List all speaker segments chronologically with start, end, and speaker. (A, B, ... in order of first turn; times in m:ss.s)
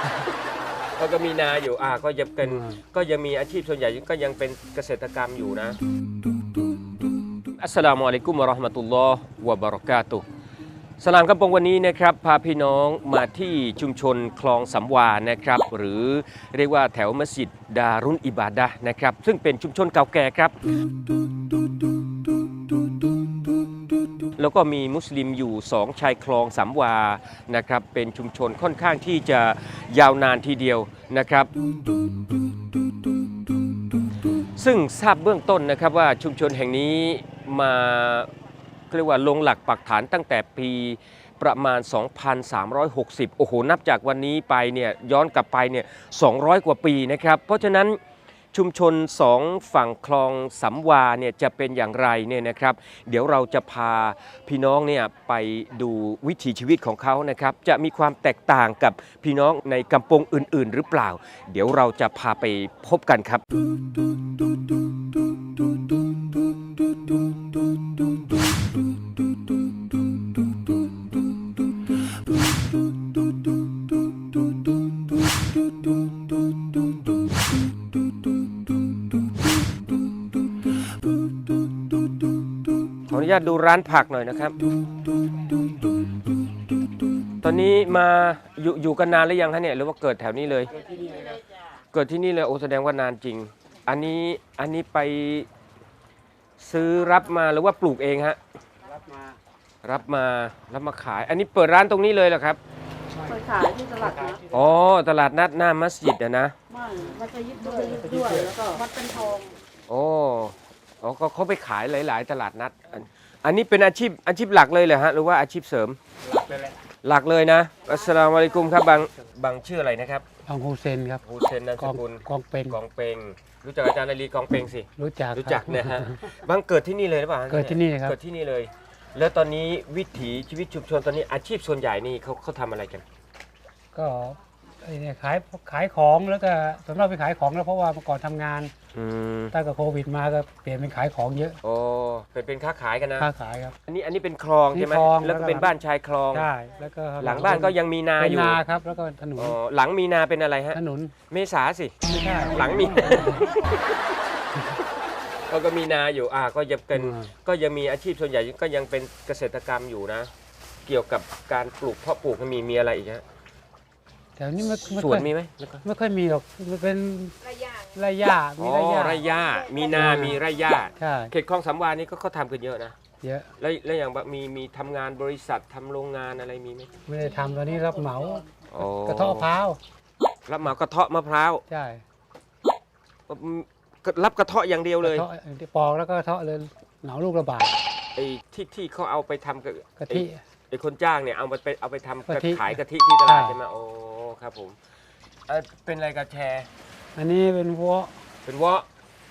0:01.0-0:05.8 A
0:02.4-0:02.8 B
0:07.5-0:10.2 A
0:11.0-0:20.6 A
0:24.4-0:31.5 A
0:34.6-0:38.3 A
0:38.9-0:48.0 A
0:48.5-1:03.4 A
1:23.1-1:24.6 A
1:27.4-1:30.8 A
1:31.9-1:35.5 A
1:36.6-1:38.4 A
1:39.8-1:42.6 A
1:43.2-1:44.4 B
1:43.3-1:44.4 C
1:44.5-1:46.5 A
1:46.8-1:49.3 C
1:47.1-1:48.8 B
1:49.9-1:56.0 A
1:57.0-2:00.2 A
2:00.4-2:01.2 B
2:01.2-2:13.0 A
2:01.8-2:02.8 B
2:05.0-2:06.3 B
2:07.5-2:08.2 B
2:13.9-2:18.7 B
2:18.9-2:19.5 A
2:19.5-2:21.6 B
2:21.6-2:23.3 A
2:23.2-2:23.7 B
2:23.8-2:26.5 A
2:24.7-2:25.7 B
2:26.3-2:29.6 B
2:27.2-2:28.6 A
2:29.4-2:32.0 A
2:30.7-2:31.1 B
2:32.0-2:33.5 B
2:32.5-2:33.8 A
2:35.5-2:40.3 A
2:36.9-2:37.3 B
2:40.8-2:43.2 A
2:44.4-2:45.3 B
2:44.7-2:45.8 A
2:45.8-2:47.4 B
2:47.9-2:49.3 B
2:48.6-2:53.0 A
2:49.8-2:50.4 B
2:51.0-2:51.3 B
2:53.2-2:53.5 B
2:53.6-2:56.9 A
2:57.0-2:59.8 B
2:58.7-2:59.5 A
3:00.5-3:01.6 A
3:01.7-3:02.0 B
3:03.3-3:05.2 A
3:05.0-3:07.8 B
3:08.2-3:14.8 A
3:10.0-3:10.4 B
3:12.3-3:13.6 B
3:15.5-3:16.7 A
3:17.2-3:18.1 B
3:18.4-3:18.9 A